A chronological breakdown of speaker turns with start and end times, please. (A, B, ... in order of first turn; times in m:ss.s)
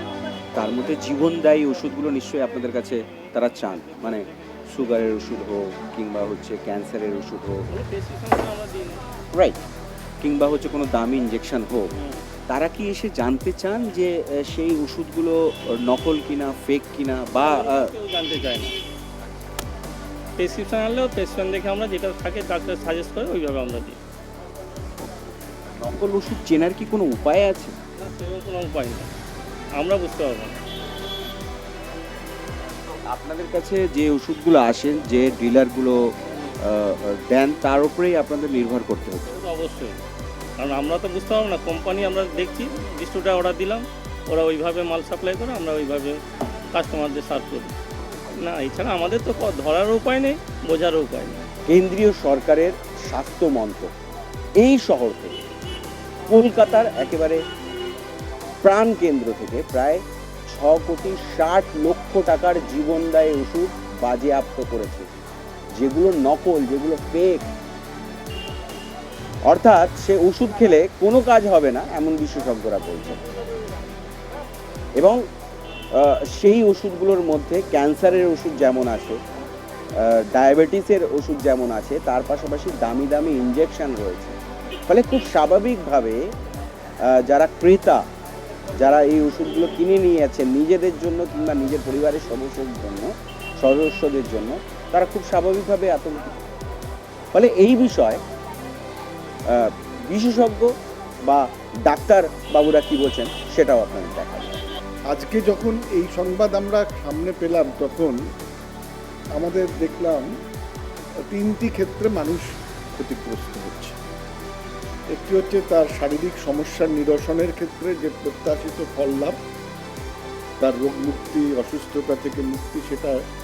0:00.6-0:04.0 A
0:04.7-0:07.6 A
0:07.7-0:09.0 B
0:10.2-0:11.9 A
0:12.0-0:12.2 B
0:12.5-0:15.4 A
0:15.9-0:17.9 A
0:17.4-0:18.7 B
0:20.4-0:24.0 B
0:25.8-0:27.7 A
0:28.0-0:29.1 B
0:29.8-0:30.6 B
0:33.1-0:36.0 A
0:36.7-0:39.3 A
0:39.3-0:40.0 B
0:40.6-0:46.2 B
0:46.7-0:47.8 B
0:48.4-0:51.4 B
0:51.7-0:53.9 A
0:54.6-0:55.3 A
0:56.3-0:57.4 A
0:58.6-1:05.1 A
1:05.8-1:07.5 A
1:09.5-1:13.2 A
1:16.0-1:19.2 A
1:20.0-1:24.4 A
1:24.9-1:26.2 A
1:27.1-1:28.0 A
1:28.8-1:36.3 A
1:37.3-1:38.2 A
1:39.5-1:40.7 A
1:41.3-1:44.5 A
1:45.1-1:48.2 C
1:49.4-1:50.3 C
1:51.3-1:54.0 C
1:55.1-1:59.4 C
2:00.6-2:03.2 C